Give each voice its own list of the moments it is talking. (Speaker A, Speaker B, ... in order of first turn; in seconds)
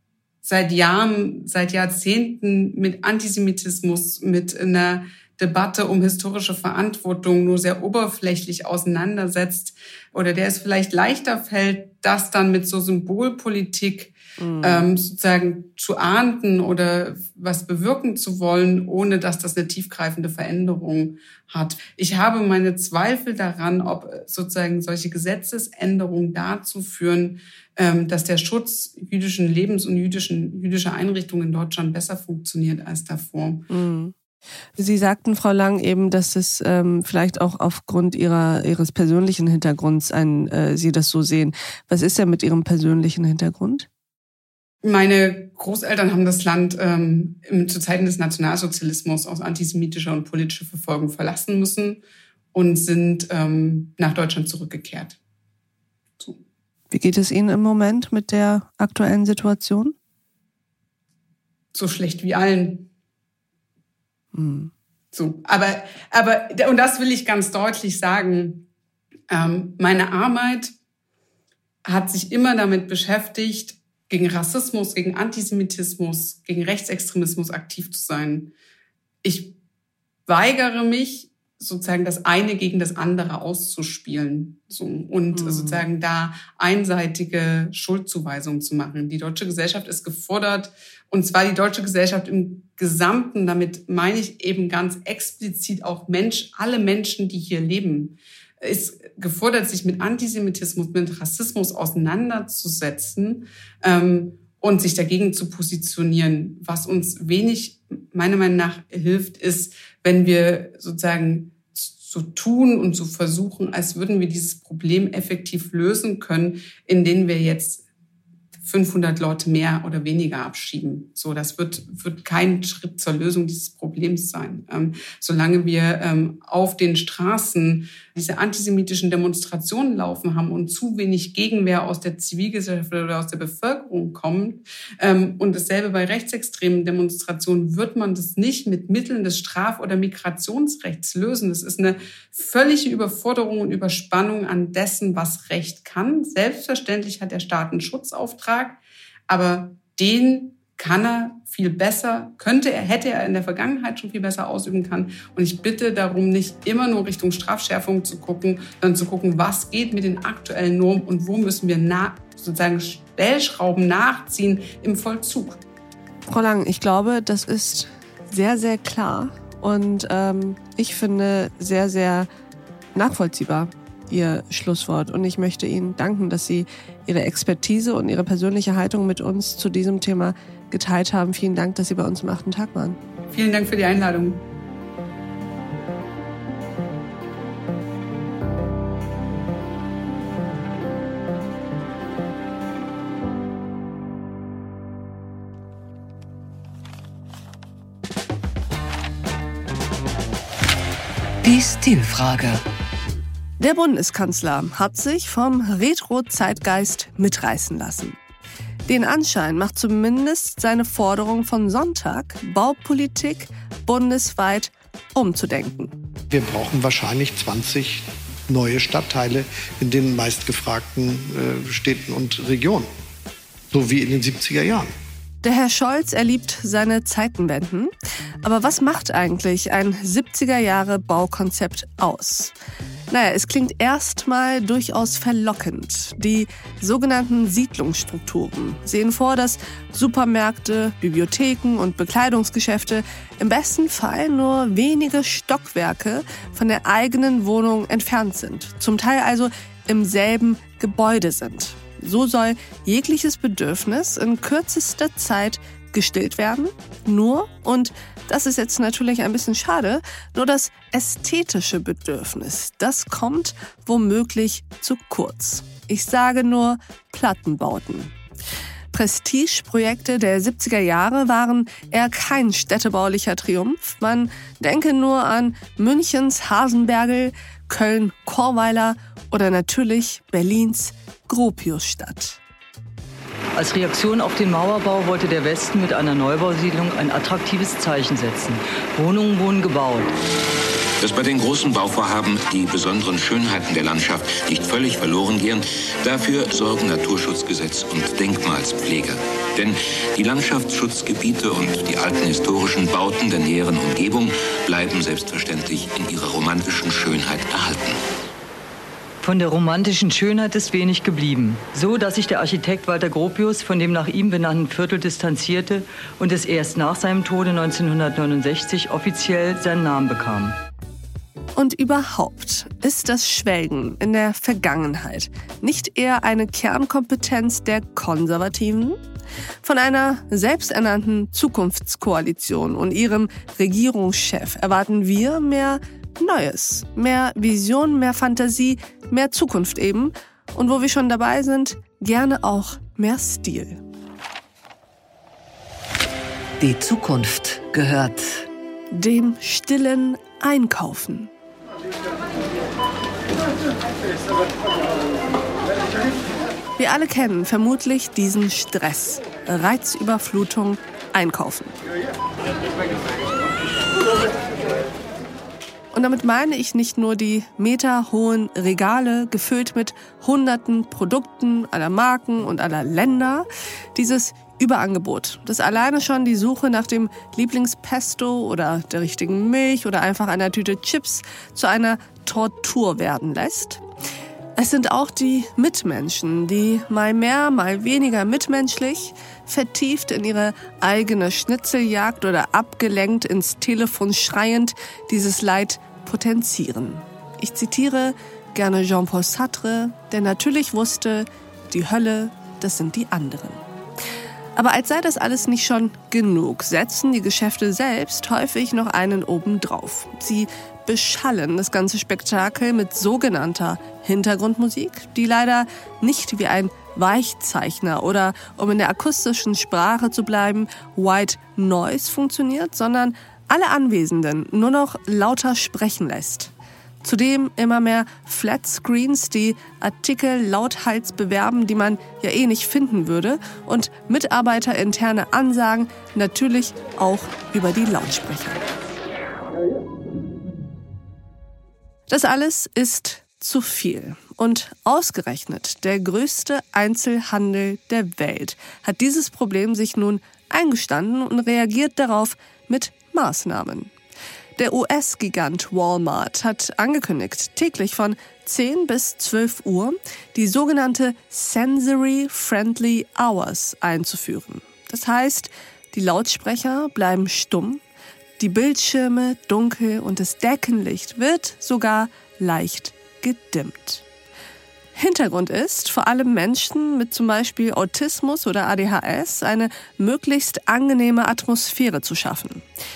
Speaker A: 0.4-33.7, 44.8-52.0, 52.5-55.2, 61.7-62.9, 65.1-68.6, 69.3-70.7, 71.8-78.5, 79.2-79.5, 80.3-117.8, 118.6-165.6, 183.3-184.4
Speaker B: 14.4-14.9, 33.7-34.1, 34.8-43.9, 56.9-59.9, 64.3-64.7, 85.3-85.8, 166.3-172.3, 172.9-183.0, 203.6-208.2, 208.9-215.9, 225.4-227.9, 228.4-232.5, 233.1-268.1, 268.9-282.4, 321.6-329.0, 329.6-343.8, 348.9-351.3, 356.8-361.8, 365.9-383.8, 384.6-403.6, 404.6-426.5, 427.0-438.6, 442.1-453.9, 454.6-467.8, 468.4-474.0, 474.9-482.7
Speaker C: 201.4-202.6, 346.6-348.5
Speaker D: 216.3-222.9, 223.7-224.9
Speaker E: 283.6-290.1, 309.2-320.6
Speaker F: 291.0-308.0